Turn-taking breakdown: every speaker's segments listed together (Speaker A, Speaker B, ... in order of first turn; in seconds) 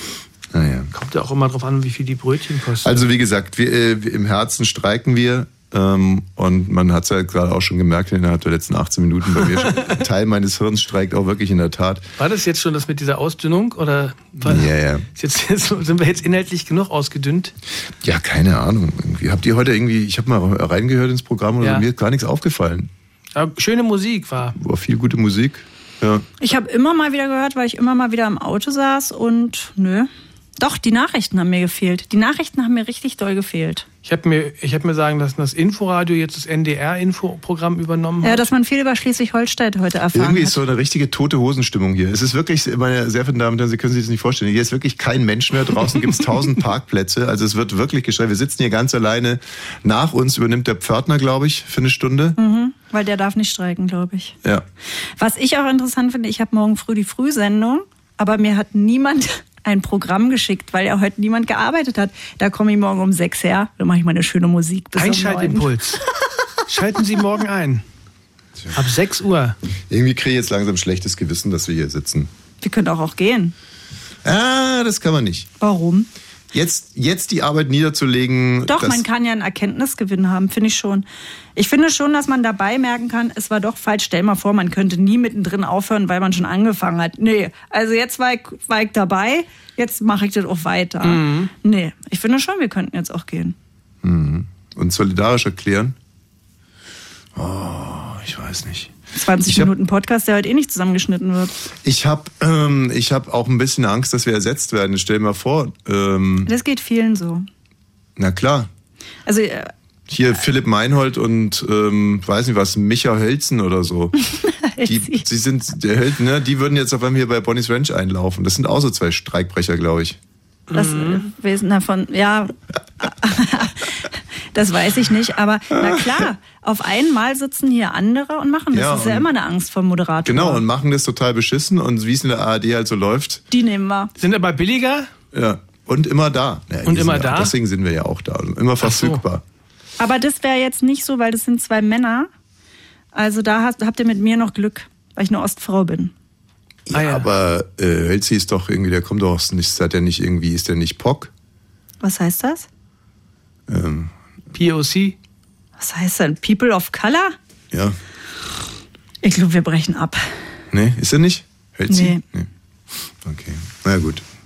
Speaker A: 0.5-0.9, 2.8-12.1, 14.4-15.1, 18.0-22.9, 24.5-26.2, 40.1-52.4, 69.9-72.3, 74.2-75.5, 76.5-79.0, 94.0-96.0, 97.3-98.9, 99.4-99.7, 101.8-106.5, 108.2-108.7, 110.1-114.1, 114.8-120.2, 128.7-129.3, 130.2-133.4, 135.3-139.4, 146.9-151.3, 153.7-154.1, 157.7-158.0, 160.7-162.5, 163.2-164.2
Speaker B: 0.9-3.0, 12.2-17.5, 23.3-24.5, 34.0-38.5, 65.0-66.0, 66.7-67.8, 68.7-69.6, 91.0-91.5, 120.7-121.2, 134.2-135.1, 136.8-137.5, 138.8-139.2, 146.9-147.3, 154.5-155.2
Speaker C: 26.4-33.9, 38.2-40.6, 52.4-54.4, 55.2-65.7, 72.6-73.5, 75.6-76.1, 78.7-81.0, 81.5-93.5, 99.1-101.5, 106.5-107.5, 109.2-109.7, 114.3-115.2, 120.7-124.0, 124.5-130.6, 133.5-134.1, 140.0-142.3, 143.1-146.1, 152.0-152.7, 155.8-157.3, 159.2-160.2, 161.9-162.2